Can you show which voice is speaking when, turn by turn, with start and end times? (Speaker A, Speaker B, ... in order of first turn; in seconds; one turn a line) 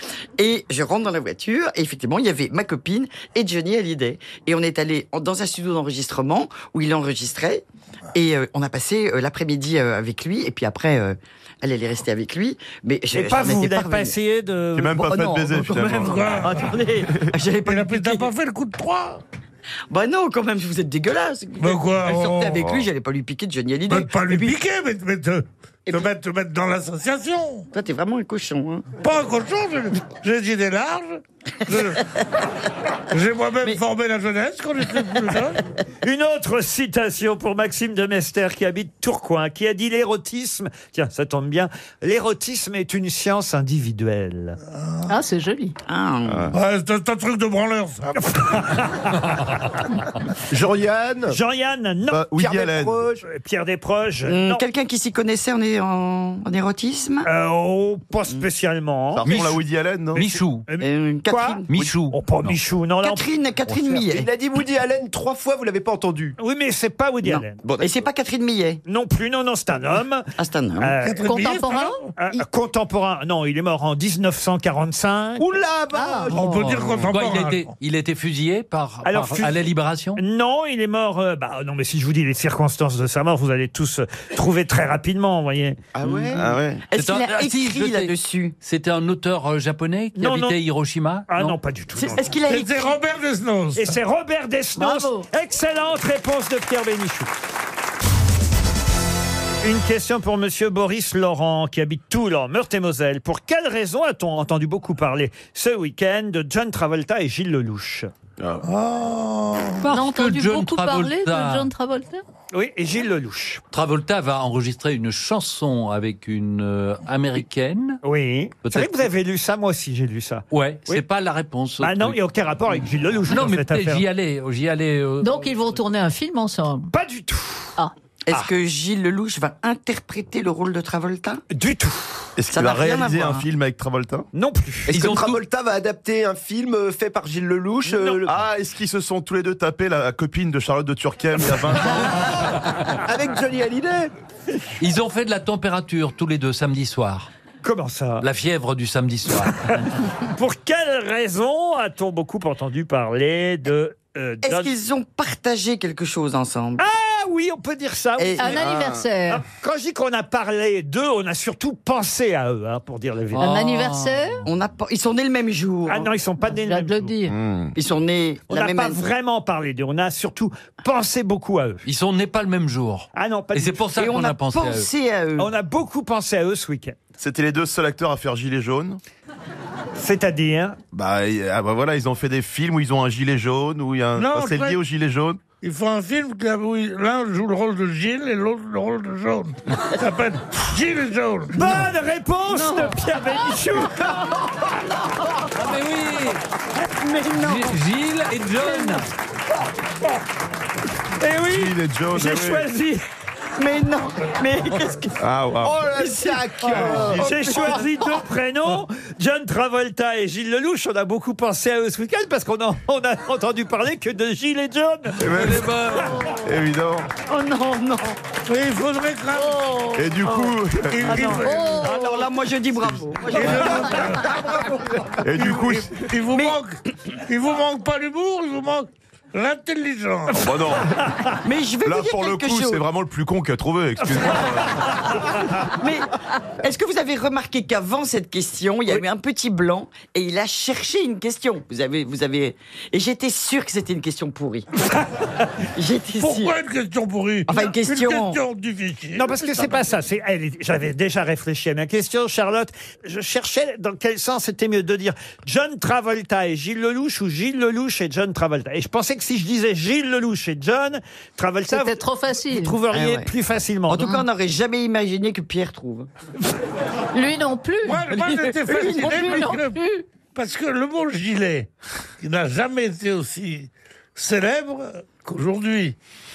Speaker A: 0.4-14.1
Speaker B: 13.1-15.0
Speaker C: 14.8-16.4
Speaker A: 14.9-18.3
Speaker D: 15.9-16.7
Speaker D: 17.6-19.2
Speaker A: 19.9-24.6
Speaker D: 21.6-22.6
Speaker D: 23.9-27.7
Speaker A: 27.7-28.9
Speaker D: 29.0-32.0
Speaker D: 33.1-35.6
Speaker B: 36.0-44.6
Speaker D: 44.7-45.0
Speaker E: 45.1-45.8
Speaker A: 45.9-46.5
Speaker D: 46.5-48.4
Speaker B: 48.2-49.2
Speaker F: 50.5-51.4
Speaker B: 51.3-52.2
Speaker C: 52.1-53.0
Speaker F: 52.3-53.2
Speaker B: 53.2-54.6
Speaker A: 54.2-57.3
Speaker B: 57.2-59.3
Speaker C: 59.1-60.4
Speaker G: 59.2-59.6
Speaker G: 60.1-60.7
Speaker B: 60.7-63.2
Speaker A: 60.8-61.7
Speaker G: 61.7-62.6
Speaker A: 63.0-64.3
Speaker F: 63.9-66.4
Speaker B: 66.4-67.6
Speaker A: 67.2-68.8
Speaker F: 67.6-68.0
Speaker B: 68.9-70.2
Speaker A: 70.4-71.0
Speaker B: 70.8-71.3
Speaker D: 71.0-72.1
Speaker E: 71.2-72.0
Speaker B: 72.2-75.5
Speaker F: 75.4-76.6
Speaker E: 75.9-76.3
Speaker D: 76.3-77.7
Speaker G: 76.5-80.2
Speaker B: 79.0-79.6
Speaker B: 80.2-85.8
Speaker F: 85.9-86.4
Speaker A: 86.0-88.5
Speaker C: 86.3-86.8
Speaker G: 86.9-91.6
Speaker B: 90.2-90.6
Speaker B: 91.3-92.3
Speaker A: 92.0-93.0
Speaker D: 92.5-94.0
Speaker B: 93.8-97.3
Speaker E: 94.8-95.2
Speaker B: 99.6-108.1
Speaker D: 108.6-109.8
Speaker G: 109.8-111.7
Speaker E: 109.9-112.2
Speaker B: 112.5-113.6
Speaker G: 113.7-118.0
Speaker B: 118.0-121.0
Speaker G: 118.6-119.1
Speaker G: 120.5-122.2
Speaker B: 121.8-124.0
Speaker G: 123.3-125.6
Speaker E: 125.2-126.9
Speaker B: 126.9-127.8
Speaker A: 128.3-131.4
Speaker B: 131.5-132.3
Speaker C: 132.4-134.3
Speaker A: 132.5-133.5
Speaker B: 134.3-135.0
Speaker F: 134.9-138.4
Speaker G: 134.9-135.4
Speaker B: 137.9-138.2
Speaker C: 138.2-142.2
Speaker F: 142.9-144.1
Speaker G: 144.8-147.3
Speaker B: 147.6-148.2
Speaker G: 148.2-149.8
Speaker B: 149.7-154.7
Speaker A: 154.4-156.8
Speaker B: 156.8-158.6
Speaker A: 158.2-158.9
Speaker E: 158.4-159.4
Speaker B: 159.3-163.5
Speaker G: 163.3-164.4
Speaker E: 163.4-164.4
Speaker A: 164.5-166.1
Speaker B: 165.9-167.1
Speaker E: 166.5-167.4
Speaker C: 167.3-167.7
Speaker A: 167.8-169.0
Speaker B: 168.5-171.8
Speaker G: 171.8-174.9
Speaker B: 173.1-173.9
Speaker A: 174.0-175.5
Speaker B: 175.4-177.0
Speaker C: 177.2-179.0
Speaker B: 180.0-180.8
Speaker C: 180.9-185.4
Speaker D: 184.1-184.8
Speaker D: 185.6-191.8
Speaker B: 191.5-194.1
Speaker G: 195.5-196.4
Speaker A: 196.8-197.8
Speaker G: 197.4-199.1
Speaker B: 201.2-203.0
Speaker C: 201.5-202.7
Speaker A: 203.6-205.2
Speaker C: 205.2-205.9
Speaker F: 205.6-207.5
Speaker A: 205.9-208.2
Speaker C: 206.7-207.3
Speaker B: 207.2-215.2
Speaker C: 215.2-215.7
Speaker G: 215.2-216.3
Speaker C: 216.3-217.1
Speaker A: 217.2-218.2
Speaker D: 218.5-219.9
Speaker C: 219.9-221.2
Speaker A: 220.2-224.3
Speaker D: 220.9-221.9
Speaker E: 221.4-222.3
Speaker D: 223.3-224.7
Speaker C: 225.2-226.1
Speaker D: 225.3-230.5
Speaker A: 226.3-226.6
Speaker C: 230.3-231.1
Speaker A: 231.4-232.8
Speaker C: 231.8-235.0
Speaker A: 235.6-244.7
Speaker A: 245.8-246.6
Speaker D: 246.2-249.8
Speaker A: 247.5-248.4
Speaker B: 249.1-264.2
Speaker E: 261.7-262.8
Speaker A: 262.9-263.3
Speaker A: 263.9-266.1
Speaker E: 267.1-268.1
Speaker D: 267.9-269.8
Speaker A: 268.1-269.6
Speaker E: 269.1-270.0
Speaker D: 270.3-271.7
Speaker D: 272.2-276.0